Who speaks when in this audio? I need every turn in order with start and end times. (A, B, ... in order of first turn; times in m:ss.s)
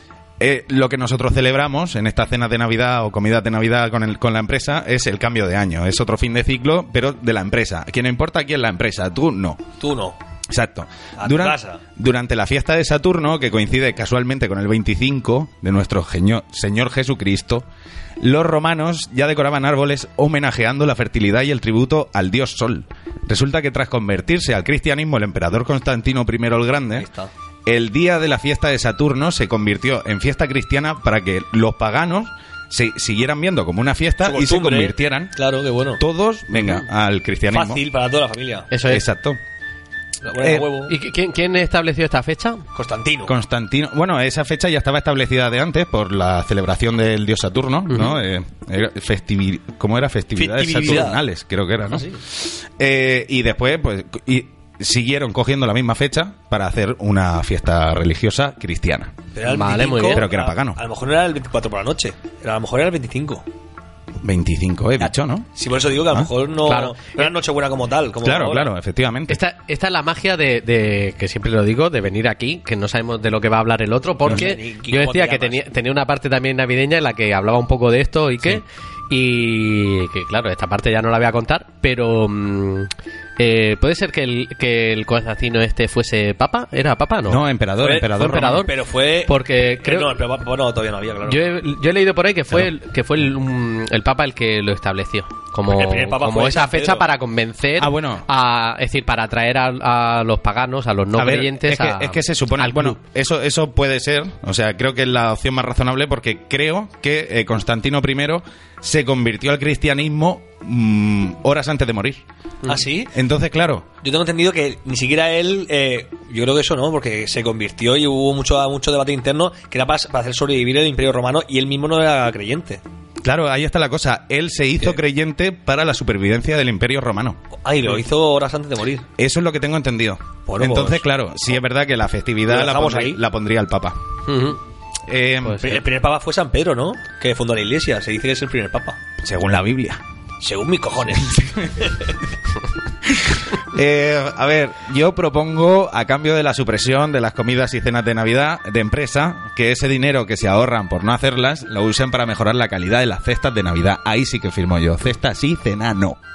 0:00.4-0:09.6 A
0:09.8-0:10.2 B
0:10.5-0:17.6 A
0:11.2-0:11.8 B
0:18.2-0:27.1 A
0:27.0-0:27.3 B
0:27.6-0:35.3 A
0:34.2-0:36.0 B
0:36.0-0:37.8 A
0:37.5-0:38.7 B
0:38.7-0:39.0 C
0:38.8-0:39.4 A
0:40.2-0:40.9 B
0:40.4-0:40.6 A
0:40.8-0:42.6 C
0:42.7-0:43.3 B
0:43.2-0:59.1 A
0:50.4-0:51.2 B
0:51.9-0:52.2 B
0:59.3-1:03.4 B
0:59.4-1:00.3 C
1:00.1-1:00.8 A
1:04.2-1:05.5 A
1:05.0-1:08.7 B
1:06.6-1:07.2 C
1:08.2-1:09.4 A
1:09.3-1:27.4 C
1:14.3-1:15.6 B
1:27.3-1:28.7 A
1:27.8-1:31.4 B
1:28.1-1:28.7 C
1:29.3-1:30.2 C
1:31.3-1:43.0 C
1:35.7-1:37.1 B
1:37.8-1:38.2 A
1:41.2-1:52.2 A
1:52.6-1:53.1 B
1:53.1-1:53.9 A
1:54.0-2:02.8 B
2:03.2-2:07.4 A
2:07.6-2:09.0 B
2:09.2-2:14.0 A
2:10.4-2:11.0 B
2:12.5-2:13.2 B
2:14.3-2:14.6 C
2:15.1-2:15.8 A
2:15.4-2:15.7 C
2:15.6-2:19.0 B
2:19.2-2:20.0 A
2:20.4-2:22.1 B
2:21.3-2:21.7 A
2:23.0-2:36.2 A